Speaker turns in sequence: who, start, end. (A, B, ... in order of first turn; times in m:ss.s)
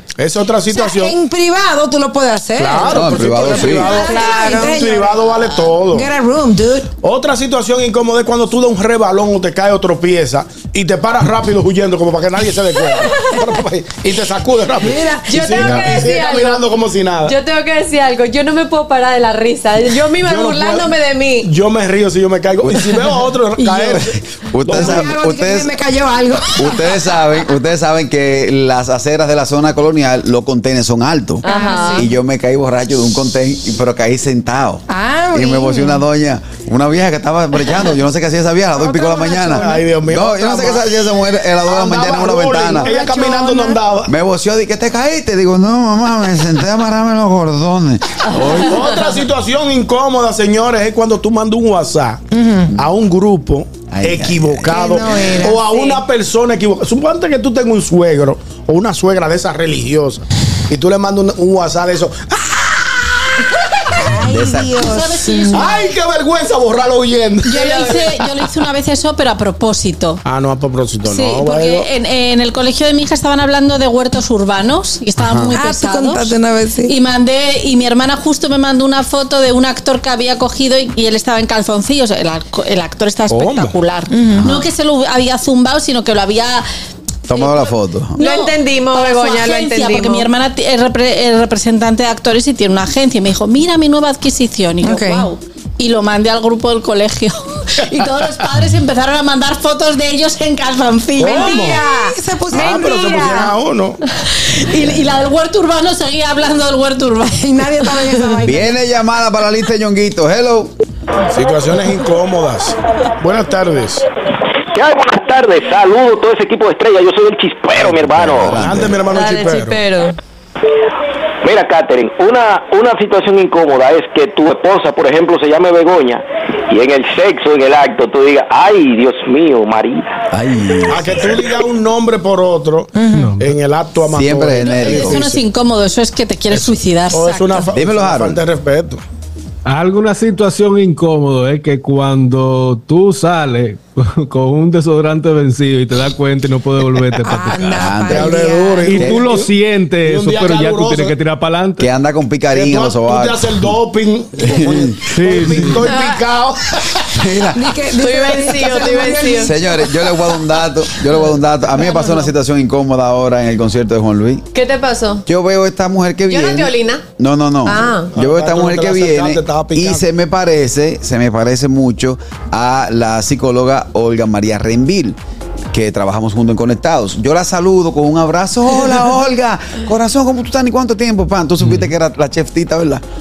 0:00.2-0:01.1 A
0:00.7-0:03.2 B
0:02.6-0:06.1 A
0:02.9-0:04.0 C
0:04.0-0:05.2 B
0:04.0-0:04.9 D
0:05.9-0:06.9 B
0:07.0-0:17.3 A
0:14.8-0:15.2 B
0:15.2-0:16.7 D
0:17.2-0:21.5 D
0:20.2-0:20.9 A
0:21.4-0:25.1 A
0:22.6-0:23.0 C
0:23.6-0:25.7 C
0:24.6-0:26.9 B
0:26.6-0:42.9 C
0:31.4-0:32.1 D
0:31.4-0:32.0 B
0:34.9-0:36.0 B
0:39.1-0:39.7 B
0:39.3-0:40.8 A
0:41.6-0:44.1 A
0:42.8-0:43.8 B
0:44.1-0:48.9 C
0:48.6-0:52.2 A
0:52.3-0:52.7 B
0:52.7-1:04.1 A
0:53.9-0:54.9 C
0:54.7-0:55.8 B
1:04.0-1:05.6 B
1:04.2-1:05.2 C
1:04.8-1:05.8 E
1:05.5-1:08.3 A
1:07.4-1:10.2 E
1:07.7-1:08.0 D
1:10.2-1:11.9 A
1:11.0-1:16.3 E
1:15.2-1:15.5 A
1:15.5-1:16.9 B
1:16.8-1:26.6 E
1:23.3-1:23.8 A
1:24.1-1:24.5 B
1:24.4-1:24.6 C
1:27.3-1:28.2 C
1:27.3-1:27.6 E
1:28.2-1:43.2 E
1:28.2-1:30.3 D
1:34.8-1:35.3 B
1:41.2-1:41.8 A
1:41.2-1:43.5 B
1:42.5-1:44.0 A
1:44.6-1:48.0 E
1:47.4-1:48.7 B
1:48.4-1:50.7 C
1:51.3-1:54.0 A
1:54.7-1:58.6 F
1:57.7-1:59.0 C
1:58.5-1:59.8 A
1:59.1-2:00.2 D
2:01.4-2:10.1 F
2:10.3-2:11.4 C
2:10.9-2:15.4 A
2:13.0-2:13.3 B
2:13.1-2:13.5 G
2:14.1-2:15.3 C
2:14.8-2:17.7 E
2:17.1-2:19.0 A
2:17.7-2:18.4 C
2:19.6-2:27.6 G
2:27.2-2:28.8 B
2:27.5-2:29.2 C
2:28.1-2:29.5 A
2:28.8-2:31.8 G
2:30.0-2:31.1 A
2:31.8-2:33.4 C
2:32.5-2:37.2 A
2:34.4-2:35.7 C
2:35.1-2:35.8 G
2:37.1-2:37.6 C
2:37.5-2:39.7 B
2:37.9-2:39.5 D
2:39.4-2:44.4 C
2:44.5-2:45.2 D
2:45.2-2:55.2 C
2:46.3-2:47.0 D
2:47.6-2:48.1 D
2:48.1-2:50.0 A
2:55.7-3:03.0 C